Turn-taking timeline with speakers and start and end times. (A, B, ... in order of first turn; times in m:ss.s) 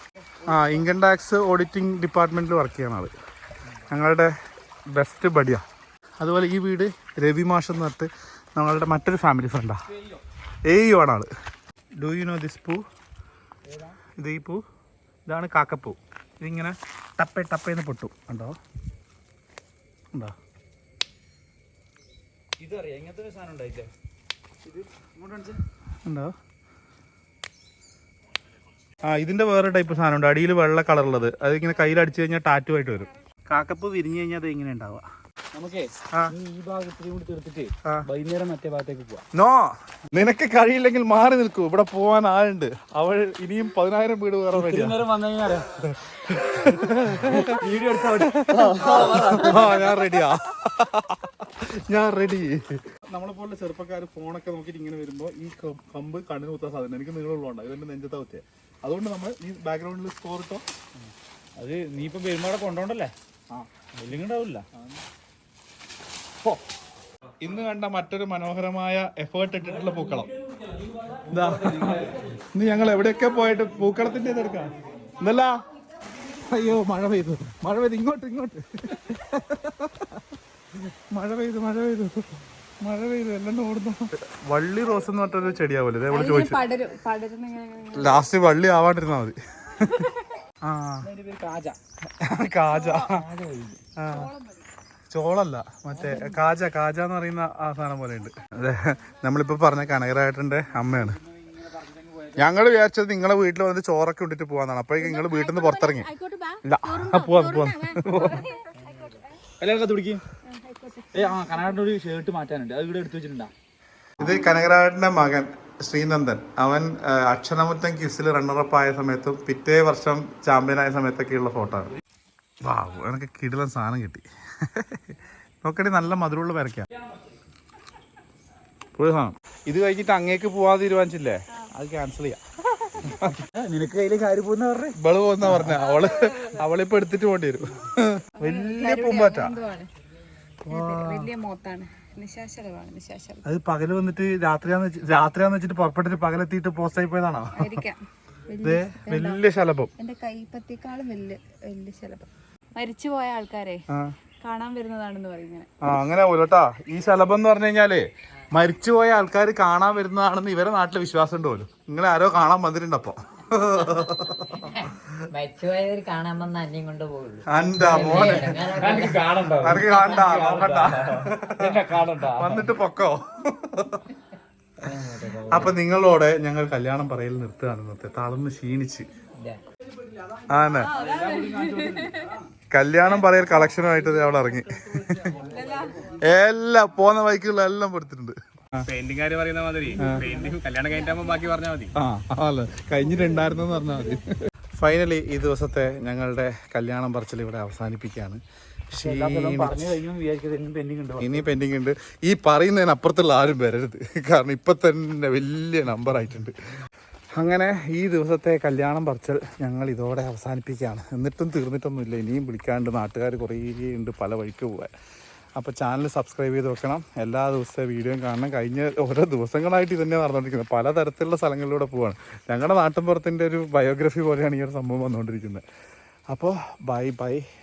0:00.4-0:03.1 A
0:03.9-0:04.3 A
0:04.9-0:05.6 A
0:06.2-0:09.8 A
0:09.9-0:10.2 B
0:10.7-0:11.3 A
0:12.0-0:12.8 A
0:13.6-0:14.0 B
0:14.2-0:14.6 A
0:15.3-0:18.5 A
0:22.6-0:23.9 B
0:24.6-0:25.6 B
0:26.0-0:26.3 A
0:29.0-0:35.0 A
0:35.5-0:39.2 B
0:39.3-0:45.0 A
0:44.5-0:45.7 B
0:45.8-0:47.6 A
0:47.1-0:50.0 B
0:48.2-1:00.6 A
1:01.0-1:04.7 B
1:07.4-1:10.3 A
1:09.8-1:12.4 B
1:11.3-1:15.6 A
1:16.4-1:20.2 A
1:20.9-1:26.6 A
1:26.1-1:28.2 C
1:27.9-1:30.0 A
1:29.8-1:30.2 C
1:30.6-1:31.1 A
1:31.0-1:31.8 B
1:32.2-1:33.2 A
1:32.7-1:33.1 C
1:33.0-1:33.8 B
1:34.0-1:34.3 A
1:34.1-1:34.7 C
1:35.1-1:41.2 A
1:36.0-1:36.3 B
1:40.8-1:42.6 B
1:42.4-1:46.1 A
1:45.0-1:49.4 C
1:46.6-1:48.4 A
1:48.9-1:50.2 B
1:50.4-1:51.7 C
1:51.1-1:53.5 B
1:54.2-2:01.9 A
2:02.6-2:06.9 A
2:09.0-2:12.4 A
2:13.0-2:13.4 A
2:13.5-2:15.8 B
2:14.9-2:19.5 A
2:15.8-2:16.6 C
2:18.4-2:19.9 C
2:20.6-2:21.3 A
2:20.7-2:23.4 C
2:23.4-2:27.8 A
2:27.5-2:29.4 C
2:28.6-2:29.9 A
2:30.0-2:33.8 C
2:34.4-2:35.7 C
2:35.8-2:45.0 A
2:44.6-2:50.4 D
2:47.5-2:49.0 A
2:47.8-2:52.7 B
2:49.6-2:54.0 A
2:54.8-2:55.7 D
2:55.5-2:59.1 A
3:00.5-3:00.9 A
3:00.7-3:02.3 C
3:00.9-3:02.5 B
3:02.7-3:05.4 A
3:04.7-3:06.2 B
3:05.5-3:06.1 C
3:06.2-3:08.9 A
3:08.8-3:11.9 E
3:09.9-3:10.6 B
3:10.0-3:10.2 A
3:12.0-3:19.9 A
3:18.9-3:21.5 B
3:21.2-3:26.5 A
3:27.4-3:34.9 A
3:35.6-3:45.6 A
3:46.3-3:47.4 A